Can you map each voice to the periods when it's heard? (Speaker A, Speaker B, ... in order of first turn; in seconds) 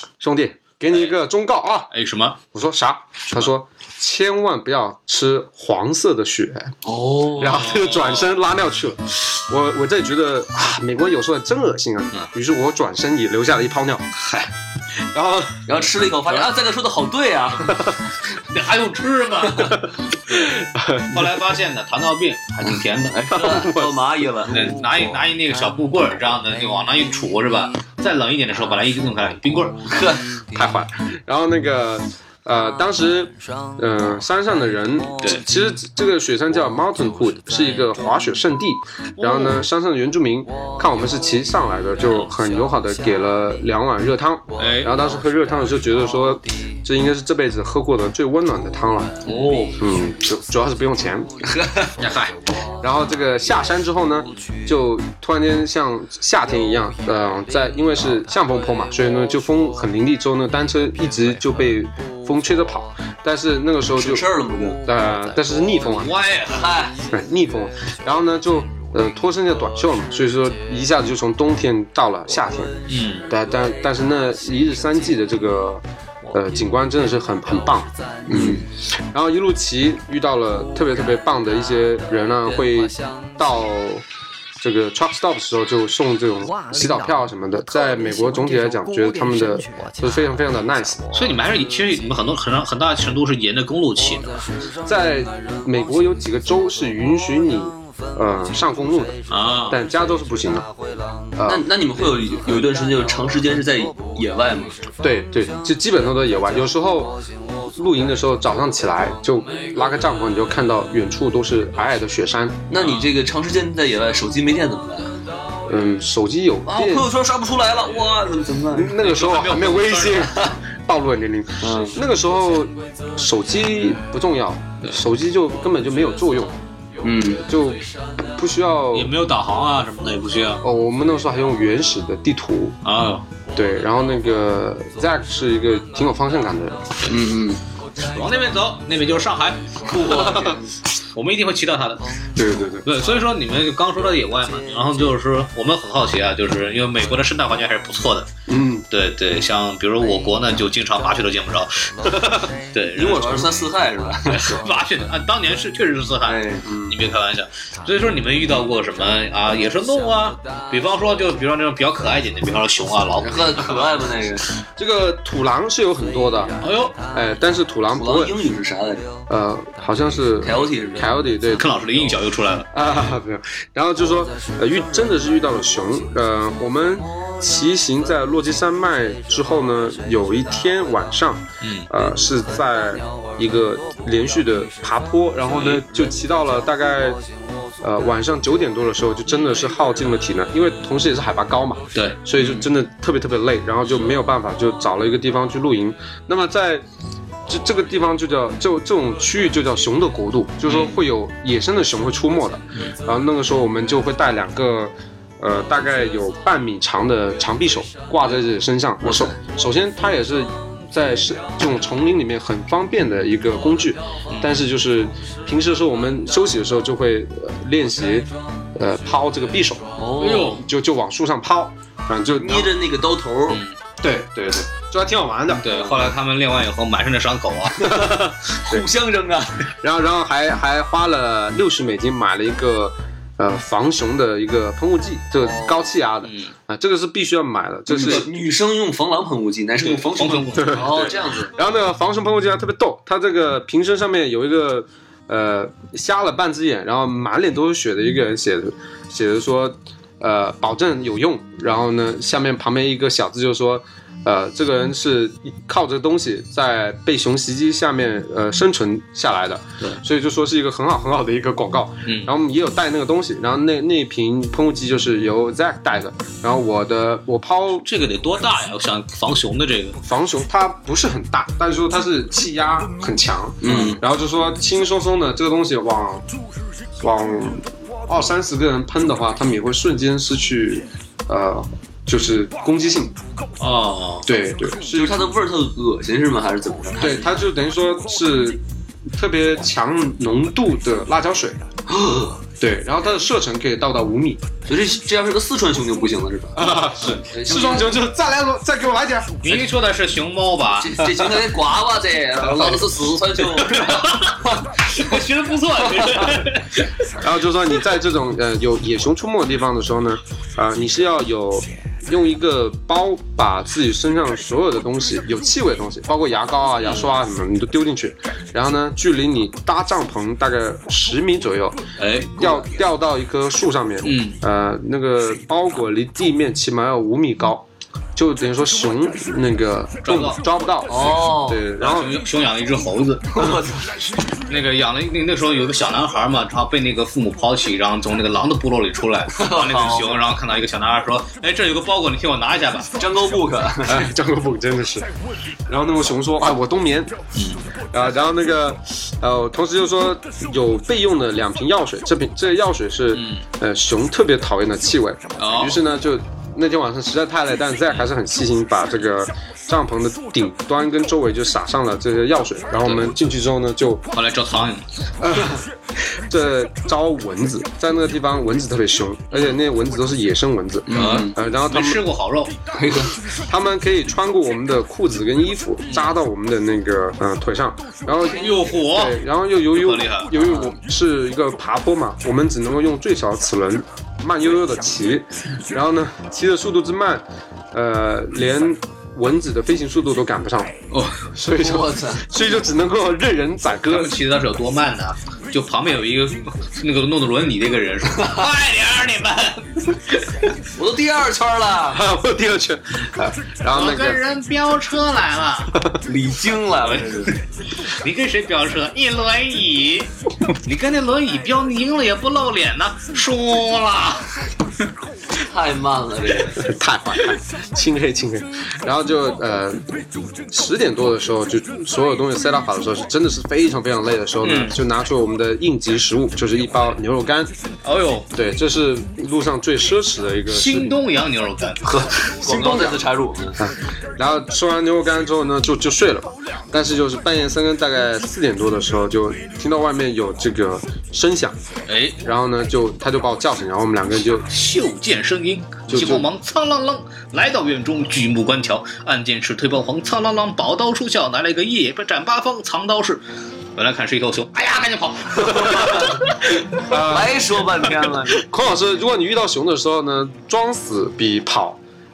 Speaker A: 0.2-1.9, 2.5-6.7, 7.4-14.1, 15.1-15.8, 20.3-21.4, 23.3-24.0, 30.5-49.2, 49.8-51.3, 52.8-64.3, 64.8-66.2, 67.1-72.7, 73.3-84.0, 84.6-91.2, 94.8-100.7, 101.3-101.7, 105.0-107.2, 107.7-112.6, 115.7-117.1, 118.7-126.5, 127.4-129.2, 130.6-132.8, 133.5-136.9, 140.1-140.6, 142.3-142.9, 148.5-148.9, 152.0-152.5, 156.6-157.0, 164.8-166.6, 167.1-168.3, 169.3-171.7, 172.7-187.2, 187.8-196.8, 197.5-219.9, 220.5-222.7, 224.0-225.8, 227.8-228.8, 229.8-238.3, 240.5-267.9, 270.0-276.2, 277.0-283.1, 284.2-285.3, 287.0-291.6, 292.6-294.4, 296.6-299.4, 307.2-321.8, 322.3-332.2, 343.9-345.1, 345.7-347.1, 347.9-364.0, 365.2-372.0, 373.3-390.8, 391.3-394.1, 401.9-404.2, 405.7-406.0, 416.6-419.9, 420.5-427.5, 428.3-431.0, 432.4-433.0, 433.6-441.6, 442.2-444.5, 445.9-446.3, 456.8-457.5, 458.3-461.8
Speaker B: 1.9-2.4, 7.5-8.4, 18.4-23.3, 24.5-29.8, 37.6-37.9, 39.2-39.6, 44.6-45.0, 49.2-49.7, 52.0-52.3, 65.9-66.7, 72.9-73.3, 91.1-94.4, 99.3-99.8, 112.8-113.1, 119.0-120.5, 128.9-130.6, 132.8-133.3, 138.0-140.6, 141.1-142.2, 142.8-148.3, 148.9-152.1, 152.7-153.5, 154.3-163.9, 166.6-167.0, 171.5-172.7, 181.6-181.9, 185.5-185.8, 191.9-192.7, 200.7-201.0, 214.3-214.6, 220.2-220.6, 225.6-227.9, 236.2-236.5, 239.8-241.2, 262.1-262.3, 267.8-270.0, 273.6-274.0, 283.6-284.3, 299.4-301.1, 302.5-302.9, 303.5-306.9, 316.8-317.1, 322.0-322.6, 324.0-324.4, 330.0-330.4, 331.8-333.6, 334.3-342.9, 353.1-353.4, 355.4-355.8, 362.8-363.1, 364.1-364.8, 369.3-369.6, 370.9-372.5, 375.9-376.1, 378.2-379.2, 379.7-380.3, 393.9-399.8, 403.7-405.8, 406.8-410.1, 410.6-414.3, 424.4-424.8, 427.8-428.3, 430.5-431.8, 441.9-442.2, 444.5-453.2, 453.8-456.4
Speaker C: 6.8-7.6, 15.7-17.8, 23.1-24.7, 29.9-30.4, 49.2-49.8, 51.4-52.0, 64.0-64.8, 66.5-67.0, 78.3-78.6, 101.5-104.8, 112.7-115.1, 116.7-119.0, 121.6-122.0, 127.0-127.4, 137.0-137.6, 139.9-140.6, 152.9-154.6, 156.2-156.7, 163.2-164.4, 167.9-169.1, 170.4-171.1, 209.0-209.3, 219.9-220.6, 222.4-223.6, 227.8-229.7, 235.4-235.8, 237.9-241.5, 273.6-274.0, 284.9-287.3, 291.9-292.4, 294.6-298.0, 300.8-304.6, 330.9-331.7, 333.3-334.0, 339.3-340.2, 343.0-344.1, 370.9-371.3, 372.7-373.1, 391.5-392.3, 398.1-398.4, 400.7-402.0, 406.0-407.4, 415.4-416.6, 431.8-433.6, 455.4-458.4